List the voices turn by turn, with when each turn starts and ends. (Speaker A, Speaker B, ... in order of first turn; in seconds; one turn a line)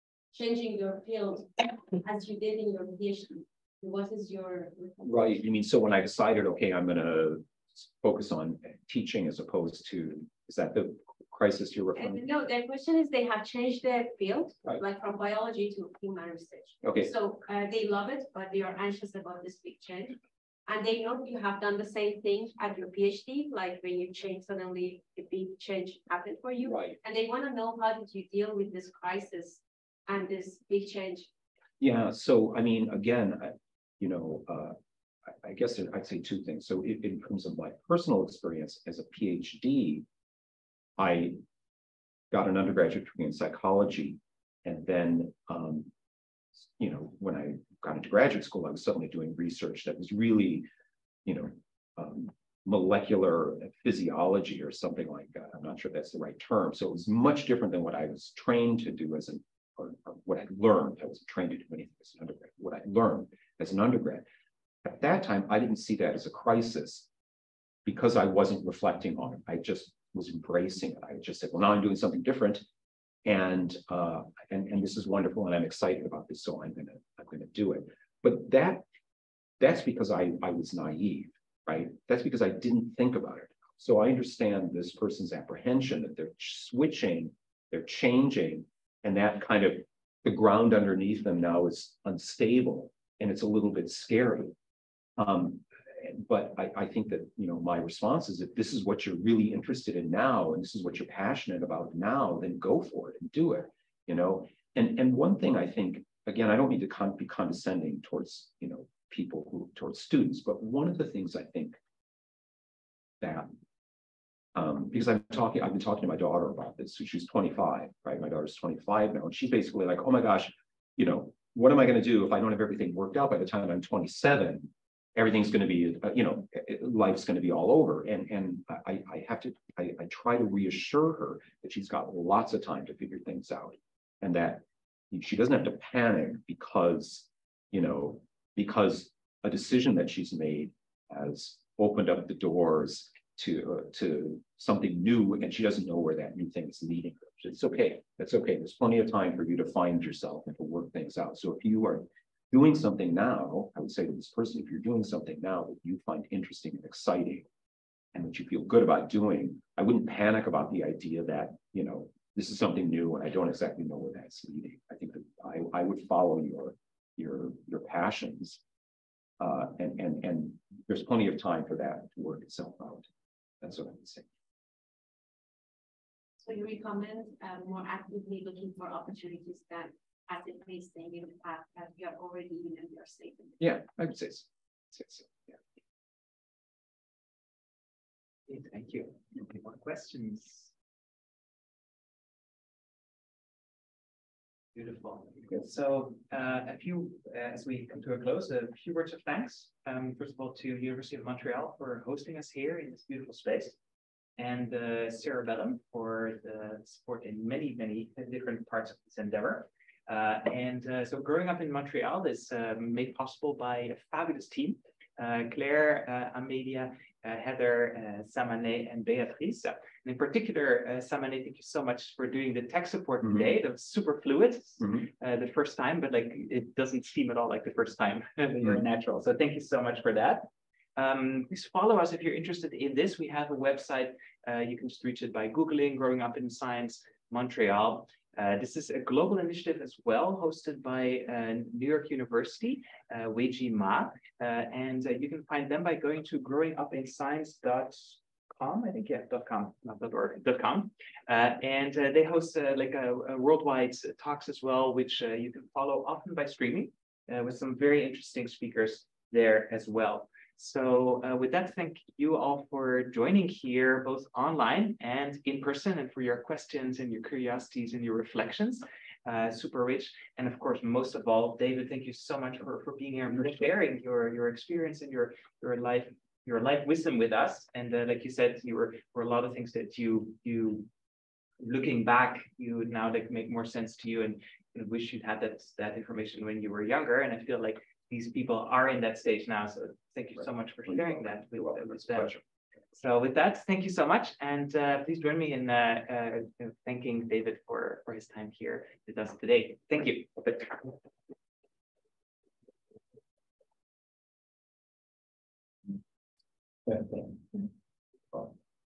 Speaker A: 0.3-5.2
Speaker B: 5.0-12.2
Speaker A: 11.9-31.3
Speaker B: 16.8-17.1
Speaker B: 26.6-27.0
Speaker B: 31.8-40.0
Speaker B: 41.0-41.4
Speaker B: 42.3-45.9
Speaker B: 46.5-50.7
Speaker B: 51.2-64.2
Speaker B: 64.8-67.1
Speaker B: 67.8-72.6
Speaker B: 73.2-78.8
Speaker B: 79.6-94.5
Speaker B: 95.2-111.8
Speaker B: 113.2-113.5
Speaker B: 114.5-157.4
Speaker B: 158.1-168.6
Speaker B: 169.4-173.1
Speaker B: 173.6-174.2
Speaker A: 176.4-183.6
Speaker B: 183.6-185.6
Speaker C: 188.5-190.7
Speaker C: 194.7-203.8
Speaker C: 204.4-280.9
Speaker B: 223.2-223.5
Speaker B: 224.8-225.1
Speaker C: 281.6-292.4
Speaker B: 290.4-292.4
Speaker C: 292.9-300.9
Speaker B: 306.9-307.2